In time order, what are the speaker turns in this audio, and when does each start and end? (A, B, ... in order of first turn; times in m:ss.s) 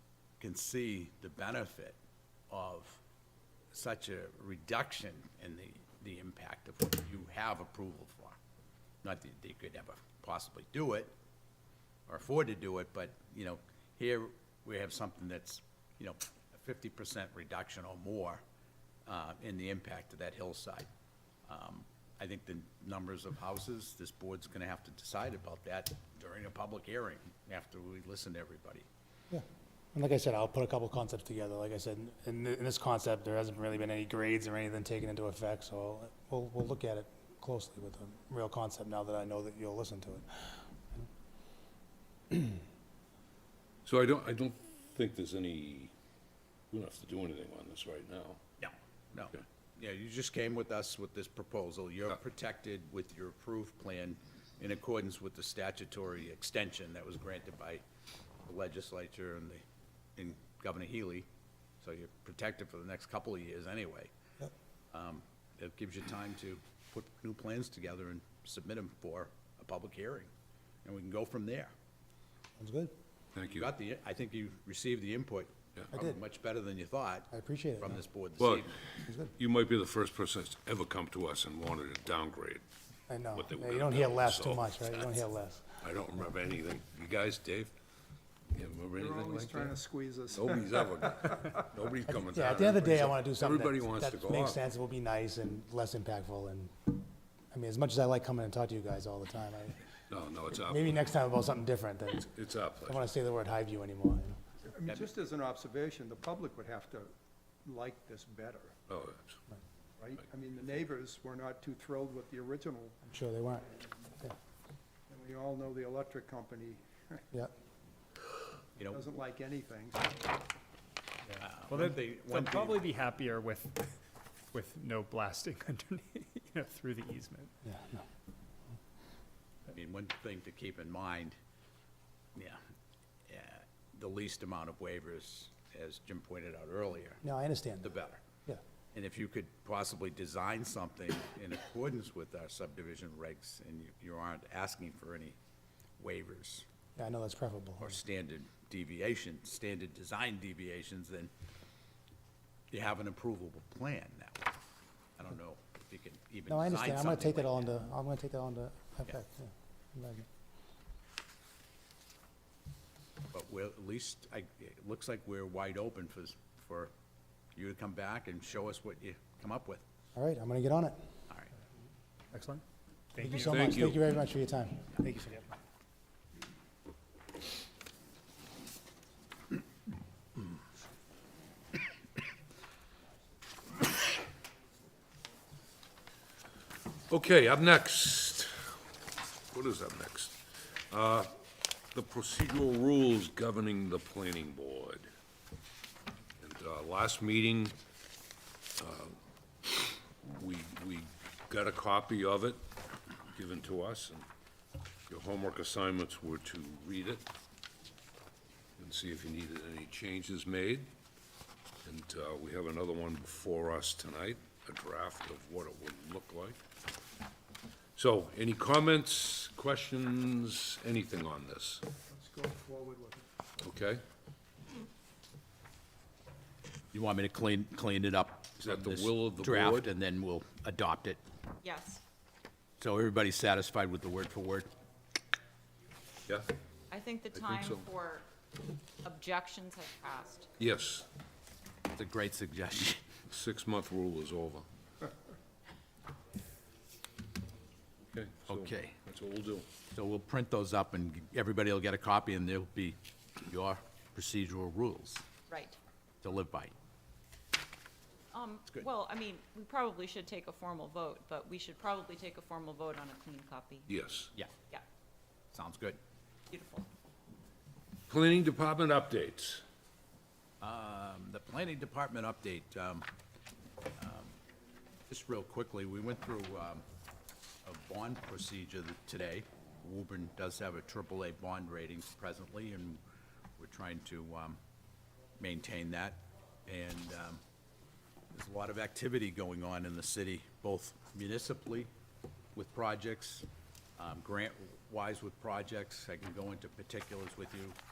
0:00.4-0:02.0 A
0:02.5-0:03.0 A
0:03.7-0:08.4 A
0:09.0-0:11.1 A
0:12.1-0:18.4 A
0:19.1-0:20.9 A
0:21.5-0:28.9 A
0:29.3-0:41.0 B
0:43.8-0:45.9 C
0:46.7-0:48.4 C
0:48.6-0:57.8 A
0:58.5-0:59.6 A
1:00.2-1:01.3 A
1:01.8-1:04.1 A
1:04.9-1:10.3 A
1:10.8-1:11.7 A
1:12.6-1:12.9 B
1:13.4-1:13.7 C
1:13.4-1:18.8 A
1:15.9-1:16.2 B
1:17.3-1:18.0 B
1:18.4-1:22.6 C
1:19.0-1:19.3 B
1:23.1-1:25.8 B
1:23.3-1:25.2 C
1:25.8-1:27.7 C
1:28.5-1:29.8 C
1:29.0-1:31.2 D
1:30.3-1:34.6 C
1:32.1-1:39.8 B
1:40.1-1:41.0 C
1:40.7-1:42.3 B
1:42.1-1:43.0 C
1:42.8-1:44.4 B
1:44.7-1:47.1 D
1:47.6-1:48.7 D
1:48.9-1:49.4 C
1:50.0-1:53.0 D
1:53.1-1:53.7 B
1:55.1-1:57.2 D
1:58.8-1:59.0 A
1:58.9-2:00.3 D
2:01.4-2:02.9 A
2:01.7-2:04.0 E
2:04.5-2:07.6 E
2:07.7-2:08.0 B
2:09.7-2:11.4 A
2:12.4-2:12.6 A
2:13.3-2:17.2 A
2:17.2-2:17.9 B
2:17.8-2:18.2 A
2:18.9-2:25.4 A
2:26.0-2:26.7 A
2:27.0-2:28.0 B
2:27.8-2:31.3 A
2:32.7-2:34.5 A
2:35.2-2:37.7 A
2:36.5-2:40.3 B
2:43.3-2:46.9 A
2:47.6-2:49.8 A
2:50.2-2:51.0 B
2:52.3-2:52.6 E
2:53.1-2:53.5 E
2:53.2-2:55.0 B
2:53.4-2:54.0 C
2:55.0-2:55.5 E
3:07.1-3:08.8 C
3:09.5-3:11.3 C
3:11.9-3:15.1 C
3:16.4-3:17.8 C
3:18.8-3:19.2 C
3:19.7-3:22.6 C
3:23.3-3:24.3 C
3:25.1-3:27.2 C
3:28.8-3:30.9 C
3:31.8-3:36.6 C
3:38.0-3:41.8 C
3:42.1-3:43.3 D
3:43.6-3:44.0 C
3:46.9-3:51.2 A
3:48.6-3:49.8 C
3:51.6-3:52.0 F
3:52.8-3:54.7 A
3:56.9-3:58.3 F
3:57.3-3:57.8 C
3:59.0-4:00.5 F
4:00.6-4:01.1 C
4:01.9-4:03.1 A
4:03.3-4:04.7 C
4:08.1-4:09.7 C
4:08.5-4:09.0 A
4:09.9-4:15.3 A
4:15.5-4:15.8 F
4:16.2-4:16.7 A
4:18.3-4:23.9 F
4:23.9-4:24.3 C
4:25.5-4:26.0 A
4:26.5-4:26.9 F
4:28.1-4:29.6 C
4:30.6-4:33.1 A
4:34.0-4:34.4 A
4:35.1-4:36.8 A
4:37.6-4:43.0 A
4:43.6-4:44.6 A
4:45.4-4:47.4 A
4:48.3-4:51.9 A
4:52.6-4:57.8 A